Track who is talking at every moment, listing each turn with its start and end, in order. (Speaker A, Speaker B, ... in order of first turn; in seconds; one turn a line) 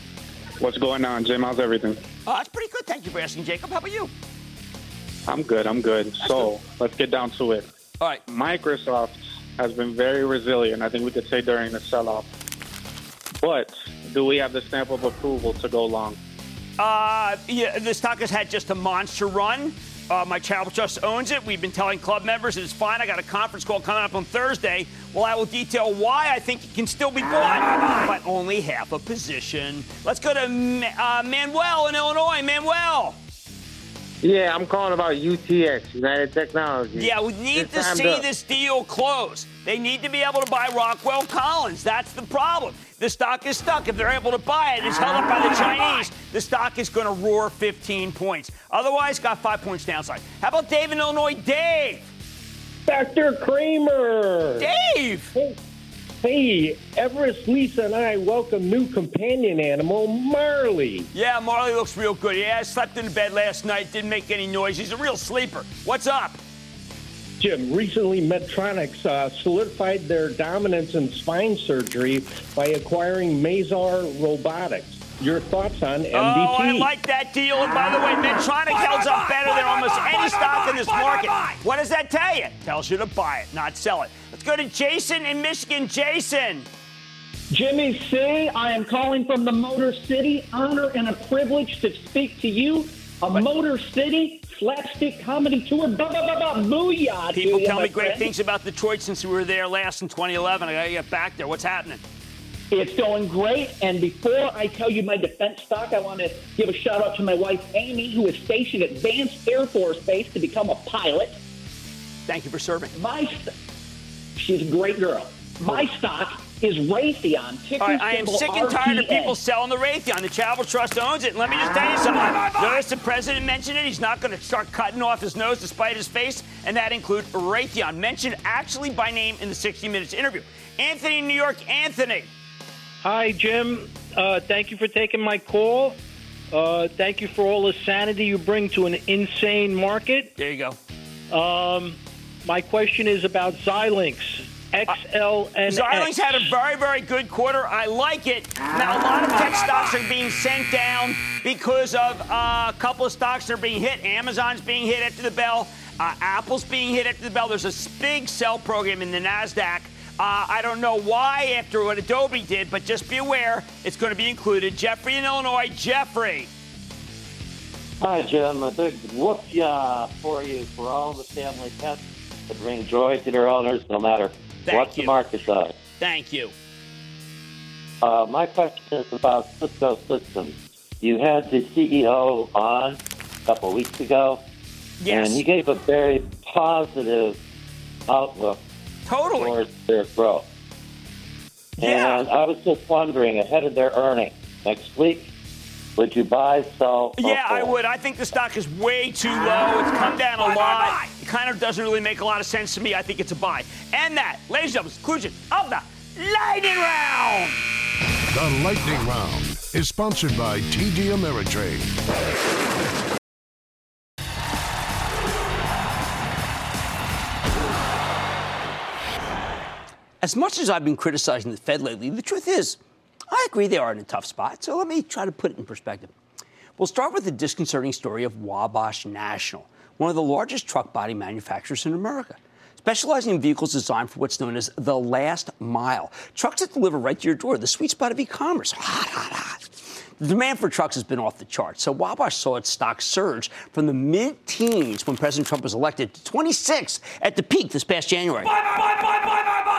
Speaker A: 0.6-2.0
Speaker B: 2.2-4.1
Speaker A: 5.3-7.7
Speaker A: 8.3-12.3
Speaker A: 13.4-16.2
Speaker B: 16.8-33.2
Speaker C: 34.2-38.2
Speaker B: 37.0-52.1
Speaker D: 52.9-54.7
Speaker B: 54.6-55.3
Speaker D: 56.2-61.1
Speaker B: 61.1-66.4
Speaker D: 67.4-76.9
Speaker B: 76.1-86.7
Speaker E: 87.5-98.3
Speaker B: 97.3-102.0
Speaker E: 102.7-111.3
Speaker B: 112.3-112.9
Speaker E: 112.9-113.5
Speaker E: 114.3-119.4
Speaker B: 115.6-115.9
Speaker B: 117.8-132.3
Speaker F: 133.0-136.0
Speaker F: 136.5-140.3
Speaker B: 140.4-140.8
Speaker F: 141.3-146.5
Speaker B: 145.7-166.5
Speaker G: 168.0-175.7
Speaker B: 174.7-175.2
Speaker B: 176.0-176.5
Speaker G: 178.0-184.4
Speaker B: 185.0-185.4
Speaker G: 185.1-187.4
Speaker G: 188.1-188.6
Speaker B: 189.1-189.6
Speaker G: 189.3-190.4
Speaker G: 191.8-195.3
Speaker B: 191.8-192.3
Speaker G: 196.0-197.8
Speaker B: 197.2-207.6
Speaker H: 208.3-211.9
Speaker B: 220.2-222.8
Speaker B: 223.3-226.1
Speaker B: 226.8-248.6